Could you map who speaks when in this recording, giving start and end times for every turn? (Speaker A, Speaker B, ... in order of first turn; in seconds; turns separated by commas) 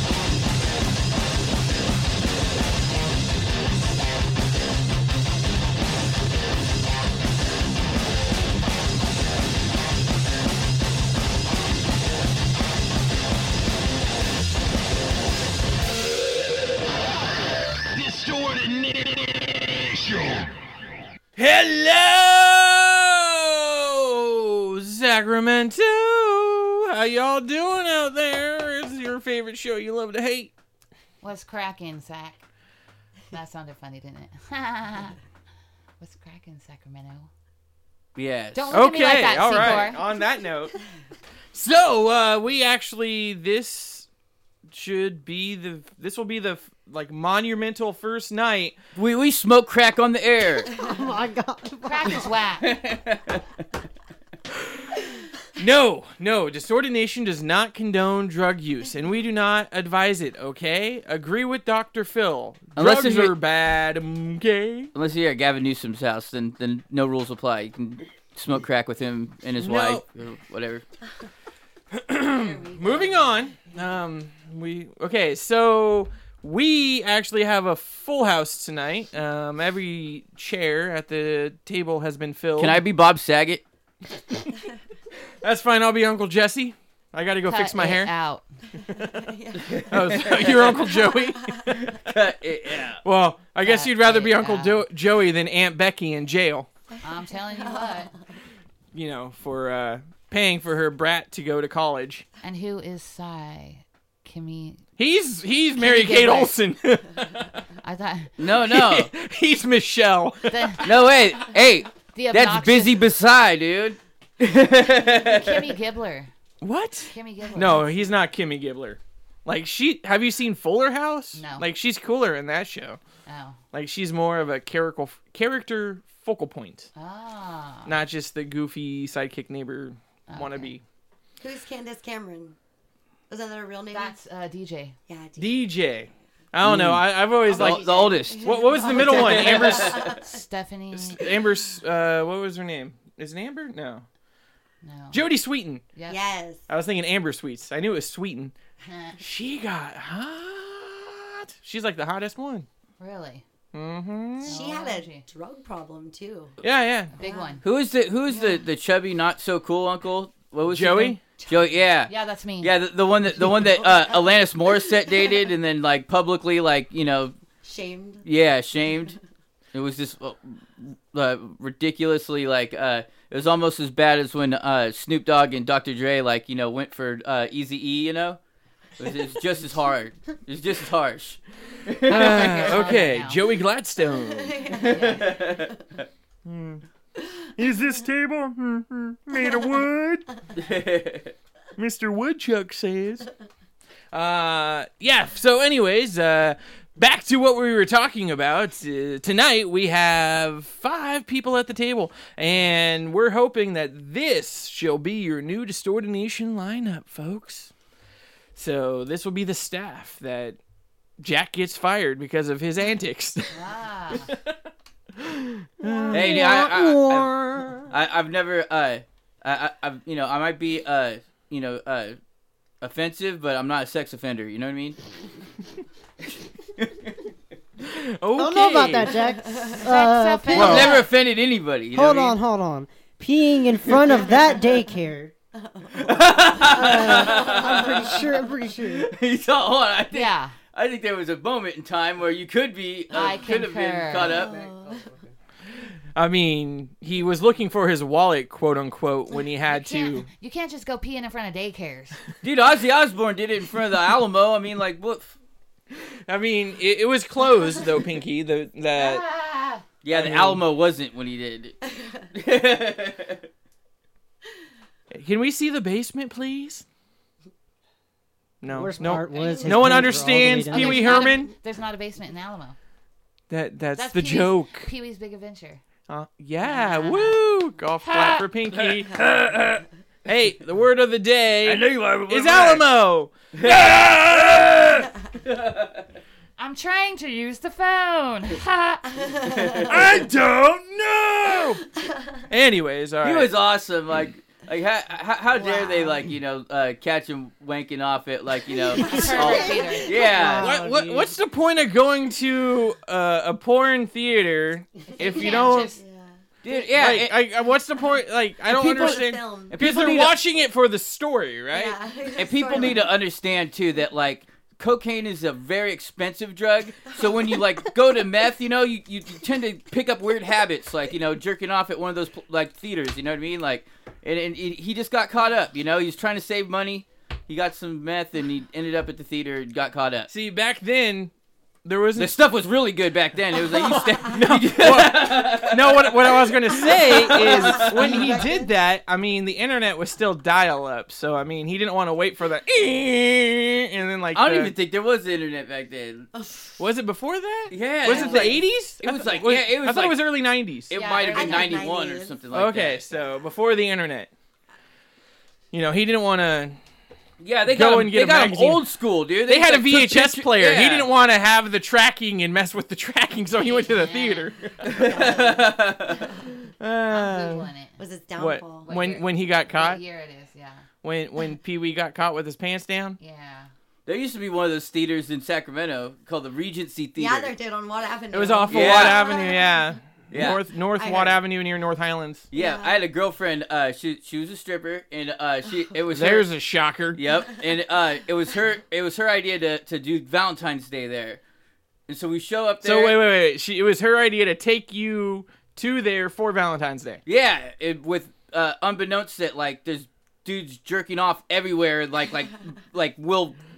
Speaker A: 17.9-20.5, Speaker B: 21.4-30.5, Speaker C: 31.2-32.4, Speaker C: 33.3-35.2, Speaker C: 36.0-37.3, Speaker D: 38.1-38.8, Speaker C: 38.5-40.0, Speaker B: 38.7-40.7, Speaker D: 39.5-39.8, Speaker B: 41.5-44.1, Speaker B: 44.7-48.8, Speaker D: 49.0-50.7, Speaker E: 50.8-52.3, Speaker C: 51.8-52.8, Speaker D: 52.6-53.4, Speaker B: 55.6-64.9, Speaker D: 62.8-63.4, Speaker D: 64.9-70.8, Speaker B: 69.6-70.0, Speaker B: 71.9-82.8, Speaker C: 72.3-73.5, Speaker D: 82.6-83.6, Speaker B: 85.4-88.1, Speaker C: 87.5-88.5, Speaker B: 88.9-89.2, Speaker F: 89.0-90.4, Speaker D: 89.7-90.8, Speaker B: 89.9-91.9, Speaker F: 91.1-91.7, Speaker D: 91.8-93.0, Speaker B: 93.0-96.7, Speaker C: 93.6-94.8, Speaker F: 97.0-98.2, Speaker C: 97.0-98.1, Speaker B: 98.9-102.2, Speaker C: 102.4-104.8, Speaker B: 105.0-107.6, Speaker C: 105.8-106.5, Speaker C: 107.8-108.3, Speaker D: 108.4-109.1, Speaker B: 108.5-110.9, Speaker C: 110.5-110.9, Speaker D: 110.8-115.7, Speaker C: 112.1-113.0, Speaker C: 115.2-116.3, Speaker B: 116.6-123.0, Speaker C: 117.1-118.1, Speaker C: 121.3-121.7, Speaker C: 123.2-123.6, Speaker B: 123.7-126.9, Speaker C: 127.0-128.0, Speaker B: 127.8-130.8, Speaker C: 130.3-130.7, Speaker F: 131.4-132.6, Speaker F: 133.3-134.1, Speaker C: 133.9-135.0, Speaker F: 135.1-135.6, Speaker B: 135.4-140.2, Speaker D: 136.6-139.9, Speaker F: 137.6-140.4, Speaker C: 140.3-141.2, Speaker B: 140.9-144.0, Speaker C: 144.8-145.2, Speaker B: 145.1-145.8, Speaker C: 145.9-146.2, Speaker F: 146.1-146.6, Speaker B: 146.7-148.5, Speaker C: 148.8-149.2, Speaker B: 149.2-152.7, Speaker C: 153.0-153.4, Speaker B: 153.7-154.6, Speaker C: 154.4-155.2, Speaker F: 154.5-156.6, Speaker B: 156.6-157.1, Speaker C: 157.1-157.6, Speaker F: 157.2-157.6, Speaker D: 157.6-167.3, Speaker F: 158.3-158.6, Speaker B: 160.7-161.2, Speaker F: 161.4-161.8, Speaker C: 162.1-162.7, Speaker F: 167.6-168.2, Speaker D: 168.2-169.2, Speaker D: 169.7-178.4, Speaker D: 179.0-182.6, Speaker B: 182.1-185.2, Speaker C: 182.1-183.4, Speaker F: 182.7-182.9, Speaker F: 184.1-185.7, Speaker D: 184.9-185.7, Speaker B: 186.4-186.8, Speaker B: 187.6-190.3, Speaker D: 190.6-191.3, Speaker B: 191.8-193.3, Speaker B: 194.1-207.7, Speaker B: 208.5-210.6, Speaker B: 211.2-214.6, Speaker C: 213.5-214.3, Speaker B: 215.1-216.5, Speaker E: 215.8-217.8, Speaker D: 216.1-222.2, Speaker D: 222.8-225.0, Speaker D: 226.8-227.1, Speaker B: 227.8-229.2, Speaker E: 228.3-231.0, Speaker F: 229.5-229.8, Speaker C: 229.8-231.1, Speaker D: 230.5-232.4, Speaker E: 231.9-235.3, Speaker F: 235.6-238.2, Speaker D: 236.0-238.2, Speaker E: 236.6-239.1, Speaker D: 238.8-244.5, Speaker C: 240.1-240.5, Speaker C: 243.1-244.4, Speaker F: 244.2-245.1, Speaker E: 244.4-245.2, Speaker B: 246.1-250.3, Speaker C: 249.7-252.2, Speaker D: 252.4-255.3, Speaker B: 256.2-259.2, Speaker C: 258.9-259.8, Speaker D: 260.0-261.8, Speaker B: 260.1-260.6, Speaker D: 262.3-263.4, Speaker B: 265.1-266.8, Speaker B: 268.6-271.5, Speaker E: 268.6-271.2, Speaker C: 269.0-272.8, Speaker B: 273.5-274.9, Speaker C: 273.9-275.8, Speaker B: 276.1-279.2, Speaker C: 276.6-277.4, Speaker C: 278.0-278.4, Speaker D: 278.7-279.8, Speaker B: 280.2-285.1, Speaker D: 281.6-282.9, Speaker D: 283.5-286.1, Speaker C: 286.6-289.0, Speaker F: 289.2-289.8, Speaker D: 289.4-290.0, Speaker B: 289.9-291.8, Speaker F: 292.0-292.4, Speaker B: 292.5-293.5, Speaker D: 293.2-300.8, Speaker F: 295.5-296.3, Speaker F: 298.7-301.3, Speaker C: 299.0-300.3, Speaker E: 300.3-300.6, Speaker B: 300.4-305.9, Speaker C: 305.2-306.0, Speaker F: 305.2-307.2, Speaker D: 306.6-307.4, Speaker B: 306.9-311.9, Speaker F: 308.7-309.8, Speaker D: 309.0-310.3, Speaker F: 311.7-313.1, Speaker D: 312.4-330.3, Speaker B: 330.3-331.3, Speaker B: 331.8-332.4, Speaker D: 332.1-338.4, Speaker B: 334.3-344.7, Speaker F: 336.9-338.7, Speaker D: 344.3-346.3, Speaker F: 346.3-346.7, Speaker B: 346.8-350.9, Speaker D: 347.7-350.2, Speaker F: 348.1-348.5, Speaker D: 350.9-353.0, Speaker C: 350.9-351.9, Speaker F: 351.3-352.4, Speaker B: 352.5-354.3, Speaker B: 355.7-356.8, Speaker D: 357.4-361.1, Speaker B: 357.6-358.8, Speaker B: 359.4-365.3, Speaker C: 363.5-364.5, Speaker D: 364.9-366.3, Speaker F: 364.9-366.4, Speaker B: 366.8-367.7, Speaker C: 367.1-367.9, Speaker F: 368.0-368.9, Speaker B: 368.4-370.0, Speaker C: 368.9-370.8, Speaker B: 371.0-373.2, Speaker C: 373.2-373.7, Speaker D: 374.1-377.5, Speaker F: 377.1-379.8, Speaker B: 378.3-382.4, Speaker D: 378.7-379.3, Speaker D: 380.3-380.6, Speaker F: 381.0-381.4, Speaker D: 382.5-386.5, Speaker F: 382.5-383.0, Speaker B: 386.1-387.2, Speaker D: 387.1-391.4, Speaker D: 392.1-393.2, Speaker B: 392.8-397.2, Speaker D: 397.2-403.6